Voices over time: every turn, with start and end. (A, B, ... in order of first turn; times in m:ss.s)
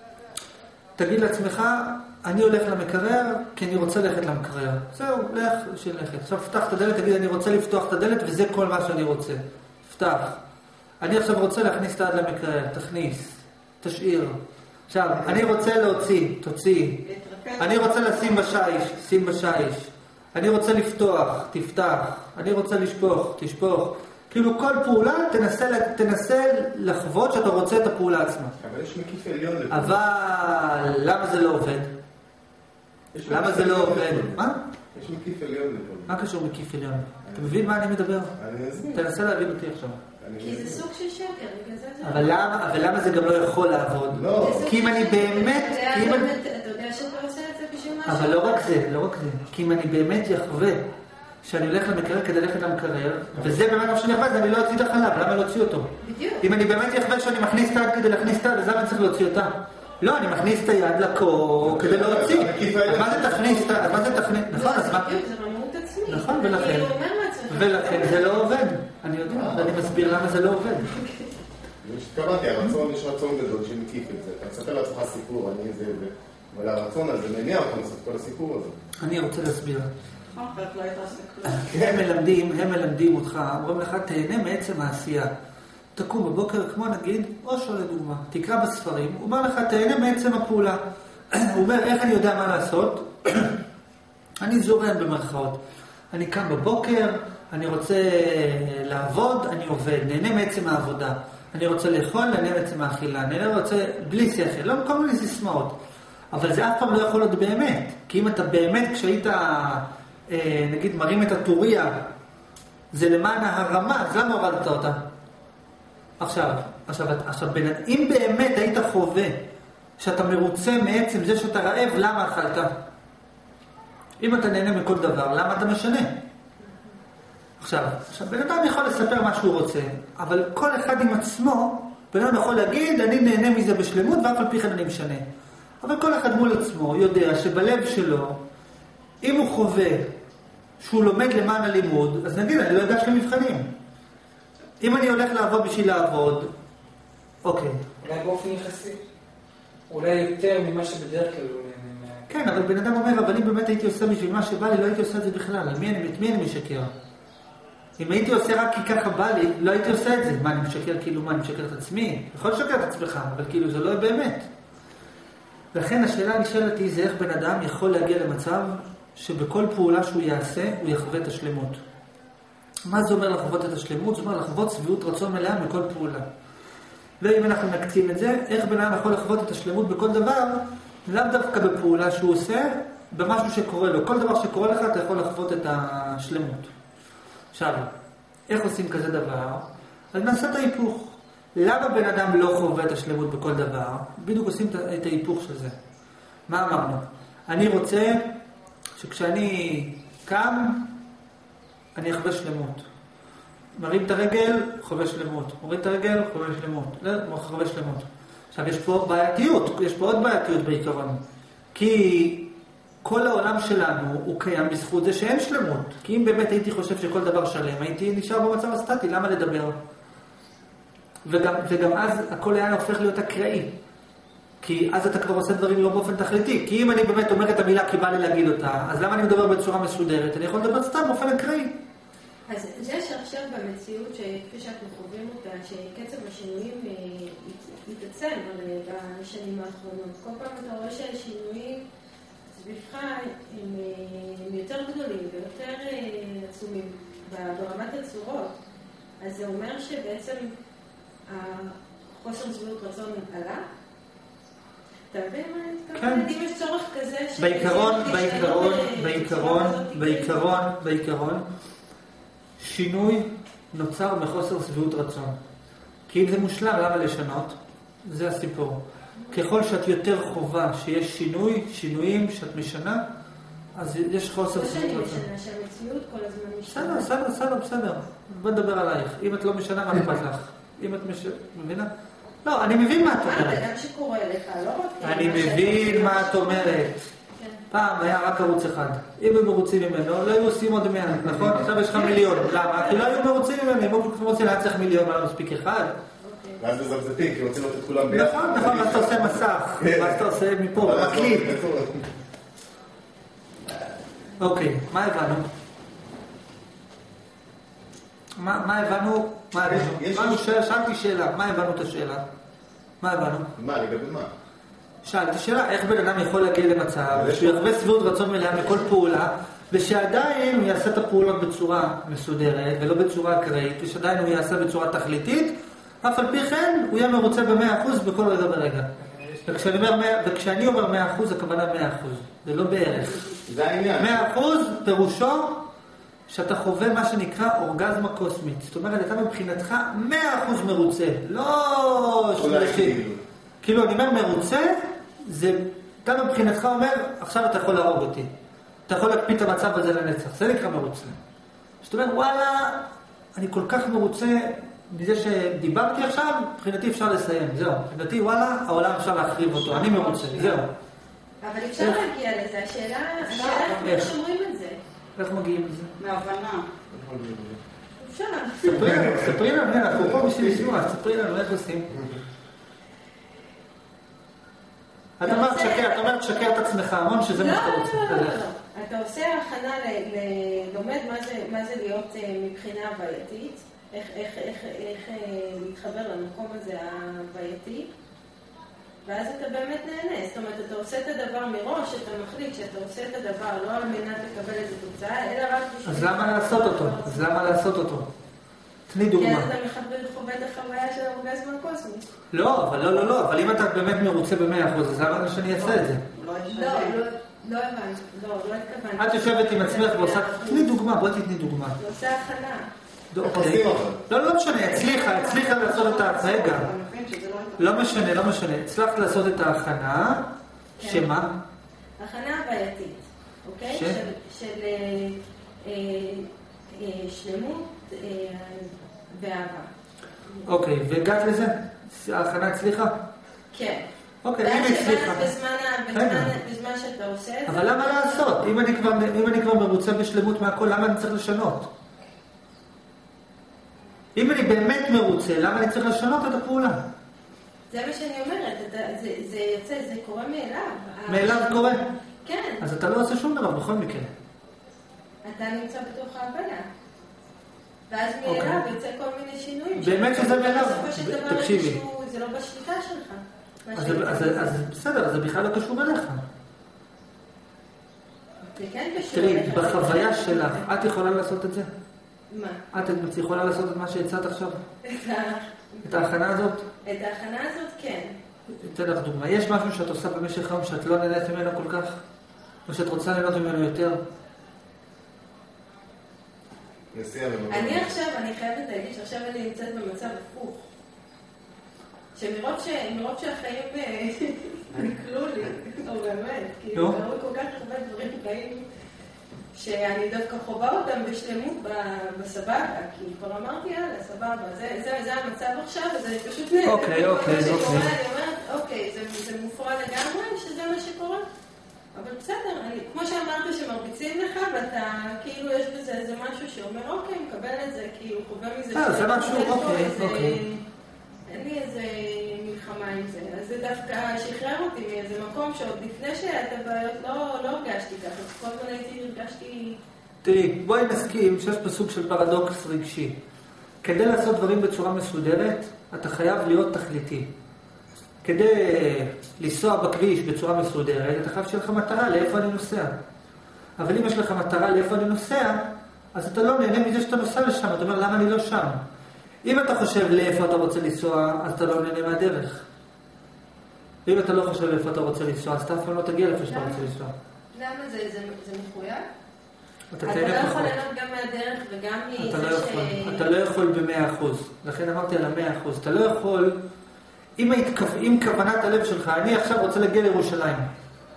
0:01.0-0:10.4 A
0:11.0-0:14.4 A
0:14.9-0:17.0 A
0:17.0-0:18.4 B
0:17.6-0:28.5 A
0:28.6-0:30.0 C
0:29.7-0:31.9 A
0:33.1-0:34.4 C
0:33.2-0:34.6 A
0:34.9-0:36.1 C
0:36.1-0:38.4 A
0:37.2-0:37.6 C
0:38.4-0:39.0 C
0:38.9-0:40.0 A
0:40.2-0:40.8 C
0:40.4-0:42.5 D
0:42.0-0:46.3 A
0:44.1-0:44.8 C
0:44.4-0:48.7 D
0:48.1-0:50.8 A
0:51.4-1:05.1 A
0:53.4-0:53.6 C
0:56.0-0:56.4 D
1:01.6-1:04.1 C
1:04.4-1:08.5 D
1:06.1-1:06.9 A
1:07.5-1:11.0 A
1:09.2-1:10.0 C
1:11.8-1:18.8 C
1:19.0-1:19.9 A
1:20.3-1:21.6 B
1:21.4-1:25.3 A
1:21.7-1:22.0 C
1:26.0-1:30.8 A
1:31.3-1:33.6 A
1:34.4-1:35.6 A
1:36.1-1:45.8 A
1:46.3-1:52.1 A
1:52.9-1:55.0 A
1:56.2-1:59.4 A
2:00.0-2:02.7 A
2:04.2-2:06.2 A
2:07.6-2:15.2 A
2:15.8-2:18.4 A
2:19.2-2:20.1 A
2:20.8-2:23.7 A
2:24.8-2:26.5 A
2:27.4-2:27.8 A
2:28.0-2:29.0 E
2:29.9-2:32.3 E
2:32.3-2:36.9 A
2:38.0-2:44.5 A
2:45.7-2:51.8 A
2:52.8-2:56.3 A
2:57.2-3:06.7 A
3:07.5-3:07.9 A
3:08.5-3:15.8 A
3:16.5-3:18.3 A
3:19.0-3:20.9 A
3:21.9-3:22.9 A
3:23.8-3:31.2 A
3:31.7-3:32.5 A
3:33.0-3:39.8 A
3:41.2-3:43.7 A
3:44.6-3:51.7 A
3:52.5-4:01.8 D
4:02.5-4:08.6 D
4:09.2-4:10.5 D
4:11.3-4:13.6 D
4:15.1-4:20.4 D
4:16.0-4:16.3 A
4:17.4-4:21.4 A
4:22.6-4:25.4 A
4:26.1-4:33.0 A
4:33.8-4:35.2 A
4:34.5-4:37.1 D
4:36.7-4:41.9 A
4:42.4-4:43.6 A
4:43.0-4:47.6 D
4:45.0-4:47.0 A
4:47.7-4:55.9 A
4:51.9-4:53.2 D
4:56.2-4:56.6 D
4:56.6-5:00.2 C
4:58.1-5:01.6 A
5:00.8-5:02.1 C
5:04.4-5:05.4 A
5:08.4-5:12.2 A
5:09.6-5:10.4 C
5:13.0-5:13.5 A
5:13.6-5:14.3 C
5:15.0-5:28.9 A
5:17.1-5:17.6 C
5:29.4-5:33.3 A
5:33.4-5:34.3 C
5:34.0-5:35.7 A
5:36.3-5:43.0 A
5:42.4-5:43.2 C
5:43.6-5:48.3 A
5:48.9-5:51.2 A
5:51.8-6:00.7 A
5:59.7-6:00.6 B
6:01.4-6:04.8 D
6:01.8-6:02.0 A
6:03.2-6:03.7 B
6:03.6-6:04.1 A
6:05.2-6:05.9 A
6:06.0-6:06.7 B
6:06.9-6:07.6 C
6:08.0-6:08.8 D
6:08.6-6:11.9 A
6:08.8-6:10.8 C
6:15.2-6:18.4 A
6:15.2-6:16.2 D
6:17.3-6:27.9 D
6:29.1-6:37.3 D
6:35.8-6:38.1 A
6:38.9-6:39.5 A
6:39.2-6:42.1 D
6:42.3-6:46.0 A
6:45.7-6:47.0 B
6:46.5-6:50.7 D
6:49.0-6:51.8 A
6:51.8-6:52.7 D
6:53.1-6:56.7 A
6:53.2-6:54.0 C
6:54.8-6:58.0 B
6:57.6-7:01.4 A
7:00.8-7:01.1 D
7:02.0-7:09.7 D
7:03.7-7:04.0 A
7:10.4-7:13.0 A
7:13.5-7:13.8 D
7:14.2-7:15.3 A
7:14.4-7:18.2 D
7:15.9-7:16.3 A
7:17.4-7:21.7 A
7:24.2-7:26.8 A
7:27.7-7:32.6 D
7:31.1-7:31.8 A
7:32.6-7:34.1 A
7:35.2-7:36.7 D
7:37.9-7:44.6 D
7:38.2-7:38.6 A
7:39.8-7:41.8 A
7:43.7-7:46.2 A
7:48.4-7:50.8 D
7:49.1-7:51.7 A
7:52.3-7:52.7 D
7:52.7-7:54.6 A
7:54.8-7:56.1 D
7:55.8-7:56.7 A
7:56.8-7:58.1 D
7:58.5-8:02.0 A
8:02.7-8:04.0 A
8:06.9-8:07.9 C
8:07.5-8:10.7 D
8:12.2-8:18.6 D
8:19.5-8:31.2 D
8:26.6-8:27.9 A
8:31.9-8:40.6 D
8:38.7-8:40.4 A
8:41.3-8:49.8 D
8:50.2-8:53.2 A
8:53.8-8:57.3 A
8:58.2-9:03.0 A
9:03.8-9:08.8 A
9:09.4-9:12.6 A
9:14.1-9:17.1 A
9:16.5-9:16.8 D
9:17.5-9:19.1 D
9:19.9-9:20.8 A
9:20.0-9:23.3 D
9:22.2-9:26.6 A
9:27.4-9:30.7 A